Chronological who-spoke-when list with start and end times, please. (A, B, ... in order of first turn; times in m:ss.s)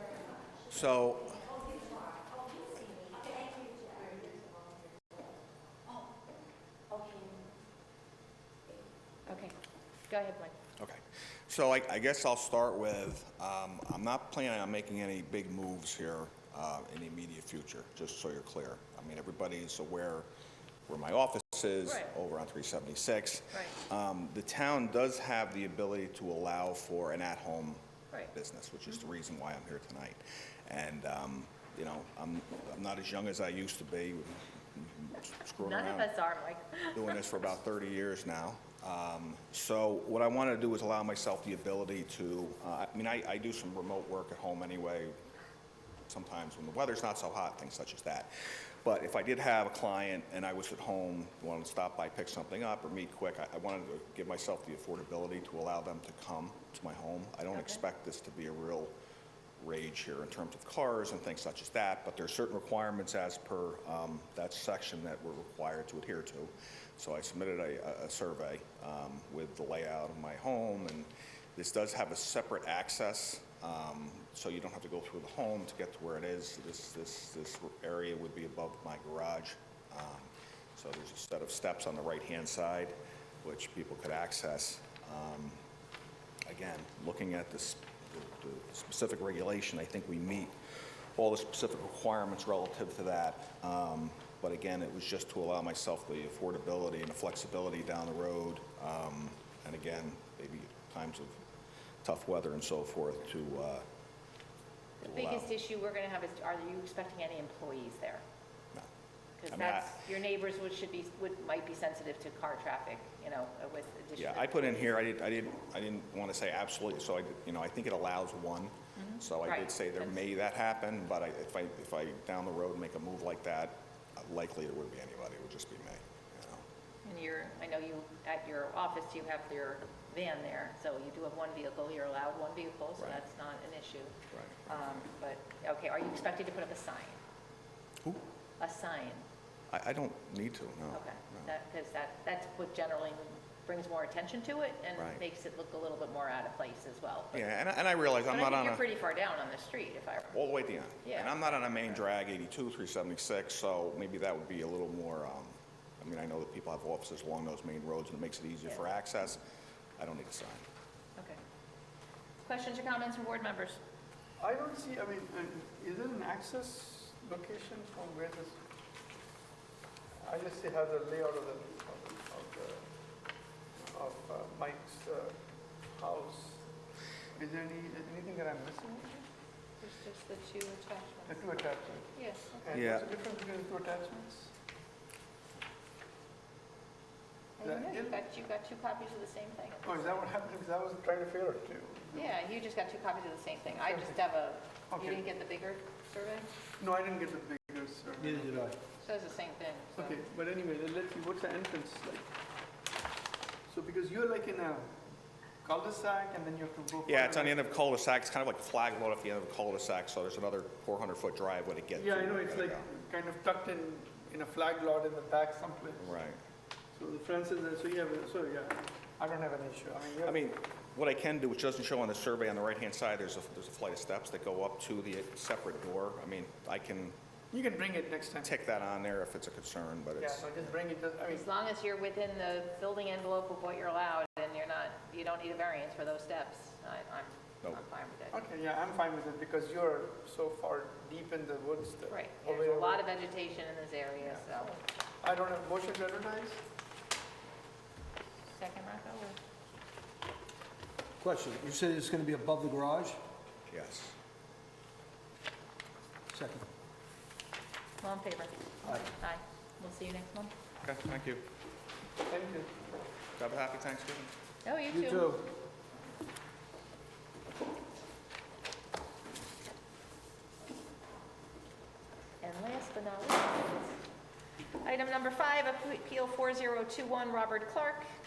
0:00.7-0:01.6 A
0:09.3-0:09.6 B
0:10.1-0:10.6 B
0:10.8-0:20.3 A
0:20.9-0:27.8 A
0:21.8-0:22.1 B
0:28.3-0:36.1 A
0:35.6-0:37.3 B
0:36.9-0:45.2 A
0:46.1-0:48.3 A
0:48.8-0:58.9 A
0:57.5-0:57.8 B
0:59.6-1:25.6 A
1:26.4-1:30.5 A
1:31.1-1:41.4 A
1:42.0-1:43.8 A
1:45.0-1:48.2 B
1:45.0-1:45.5 A
1:49.4-1:54.9 B
1:49.5-1:50.0 A
1:54.2-2:06.6 A
1:59.0-2:00.2 B
2:07.0-2:14.1 B
2:14.3-2:14.7 A
2:14.7-2:17.2 B
2:18.6-2:19.2 B
2:19.7-2:21.5 A
2:20.9-2:27.5 B
2:27.3-2:28.8 A
2:28.3-2:30.4 B
2:30.3-2:39.4 A
2:31.0-2:31.4 B
2:40.0-2:40.6 A
2:42.4-2:43.8 B
2:44.4-2:48.6 C
2:50.2-2:52.8 C
2:53.8-2:55.4 C
2:55.9-2:56.6 C
2:57.3-2:59.2 C
2:59.8-3:01.5 B
3:01.3-3:02.1 C
3:02.1-3:02.6 B
3:02.6-3:04.5 C
3:02.7-3:03.1 A
3:07.6-3:10.2 B
3:07.6-3:08.2 C
3:09.8-3:12.3 C
3:12.1-3:16.5 B
3:13.8-3:14.2 C
3:14.9-3:15.2 C
3:16.8-3:18.6 C
3:18.2-3:18.8 D
3:19.0-3:20.2 B
3:20.0-3:22.3 C
3:23.7-3:24.9 C
3:25.6-3:27.6 C
3:27.0-3:32.8 A
3:32.0-3:36.1 C
3:36.0-3:36.4 A
3:36.9-3:40.3 C
3:40.2-3:47.2 A
3:47.5-3:48.5 C
3:48.4-3:50.7 A
3:50.2-3:51.5 C
3:51.3-3:58.4 B
3:58.3-4:03.0 C
4:02.1-4:04.8 B
4:05.2-4:06.6 C
4:08.5-4:09.4 B
4:11.2-4:13.2 D
4:13.7-4:14.1 A
4:16.3-4:16.7 D
4:18.0-4:20.5 B
4:20.8-4:21.4 A
4:22.3-4:22.7 C
4:23.4-4:24.3 A
4:24.6-4:25.4 B
4:24.9-4:25.5 D
4:32.4-4:34.0 B
4:34.8-4:38.1 B